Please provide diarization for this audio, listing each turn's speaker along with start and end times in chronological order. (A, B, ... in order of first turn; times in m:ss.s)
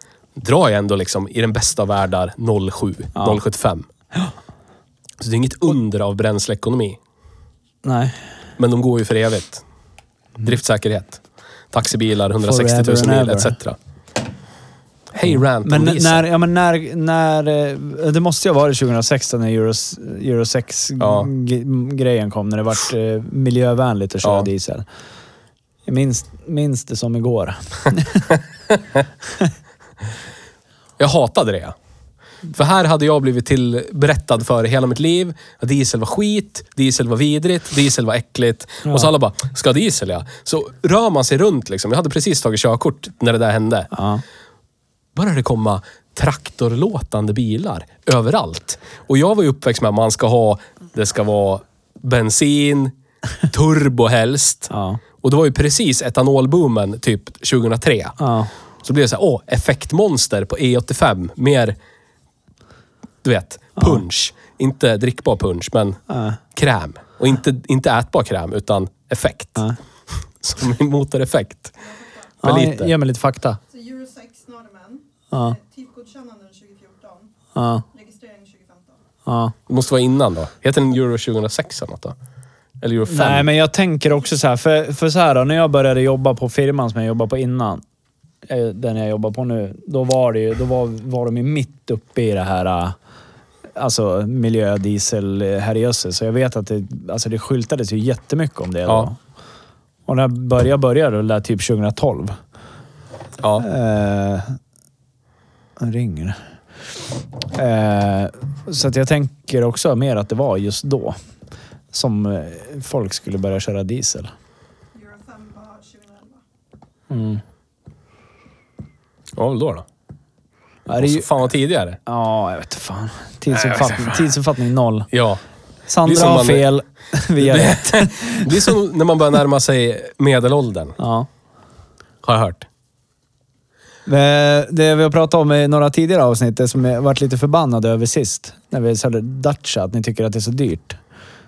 0:00.4-0:03.9 A
0:03.2-0:03.4 B
0:05.2-0:07.0 A
0:07.8-0:08.2 B
0:08.6-0:09.6 A
0:10.4-0:13.8 A
0:12.4-0:13.6 B
0:15.1-0:16.2 A
0:15.3-0:24.8 B
0:21.0-0:21.3 A
0:24.2-0:24.5 A
0:25.9-0:28.3 B
0:31.0-0:31.8 A
0:32.5-0:43.9 A
0:43.9-0:44.2 B
0:45.2-0:52.9 A
0:53.5-0:54.7 A
0:54.7-0:55.0 B
0:55.2-0:58.2 A
0:58.2-0:58.5 B
0:58.8-1:01.8 A
1:03.2-1:06.0 A
1:06.1-1:06.4 B
1:06.6-1:09.6 A
1:10.4-1:11.7 A
1:11.8-1:12.3 C
1:12.4-1:12.9 A
1:12.4-1:13.6 B
1:13.7-1:17.3 C
1:17.6-1:17.8 B
1:17.9-1:19.0 C
1:19.3-1:19.5 B
1:19.7-1:22.2 A
1:22.8-1:23.5 A
1:23.1-1:27.8 B
1:28.5-1:33.0 B
1:33.8-1:39.2 B
1:40.1-1:42.4 B
1:43.6-1:44.6 B
1:45.8-1:46.4 B
1:47.5-1:51.2 B
1:51.9-1:54.3 B
1:54.9-1:56.4 C
1:57.1-1:57.4 B
1:59.4-1:59.9 A
2:00.9-2:01.3 B
2:01.0-2:02.0 A
2:02.1-2:05.1 B
2:03.5-2:04.3 A
2:05.1-2:05.4 A
2:05.9-2:08.7 B
2:06.0-2:06.7 A
2:07.4-2:11.0 A
2:11.0-2:11.3 B
2:12.2-2:12.7 A
2:14.1-2:21.0 B